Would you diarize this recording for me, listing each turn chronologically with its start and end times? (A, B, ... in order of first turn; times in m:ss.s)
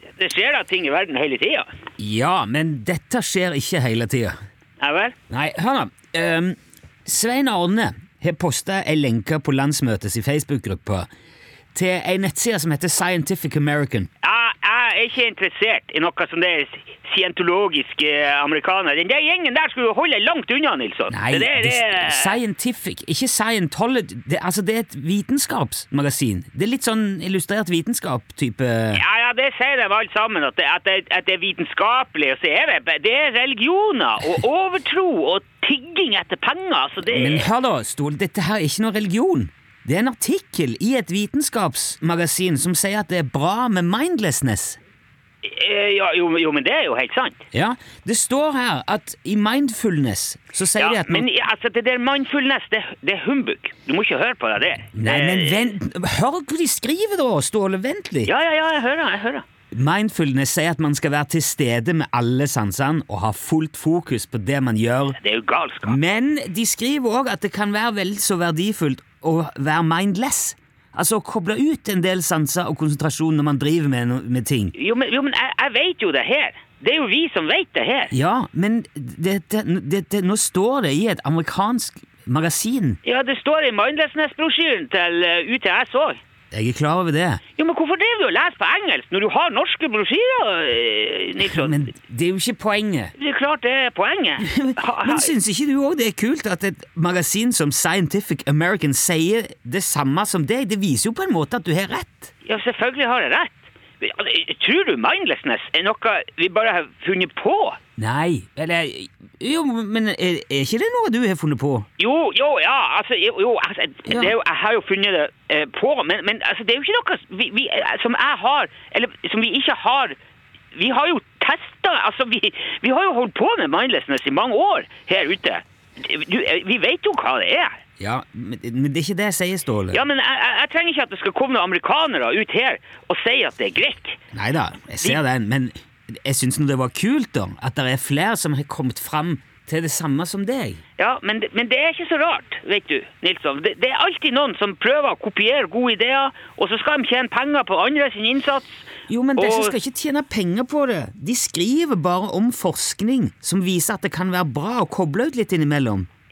0:00.2-0:01.7 A
0:02.0-0:04.3 B
0:04.8-0:05.2 A
0:05.3-0:11.1 B
0:11.7-0:14.1 B
0:14.2-0:22.4 A
0:21.1-0:29.0 B
0:28.9-0:37.5 A
0:37.0-0:44.8 B
0:45.4-0:47.4 A
0:47.5-0:51.3 B
0:50.8-0:55.8 A
0:55.0-0:58.3 B
0:58.2-0:59.4 A
0:59.7-1:05.2 B
1:05.2-1:06.0 A
1:05.8-1:14.7 B
1:14.8-1:18.1 A
1:18.1-1:23.0 B
1:23.0-1:26.2 A
1:26.5-1:27.4 B
1:27.6-1:31.8 A
1:31.4-1:33.1 B
1:33.2-1:35.3 A
1:34.4-1:42.3 B
1:42.4-1:47.8 A
1:48.0-1:51.8 B
1:52.0-2:00.2 A
1:54.1-1:54.3 B
2:00.8-2:07.8 A
2:08.0-2:10.0 B
2:09.9-2:14.2 A
2:14.3-2:20.8 B
2:21.0-2:28.8 A
2:29.1-2:36.1 B
2:29.4-2:29.8 A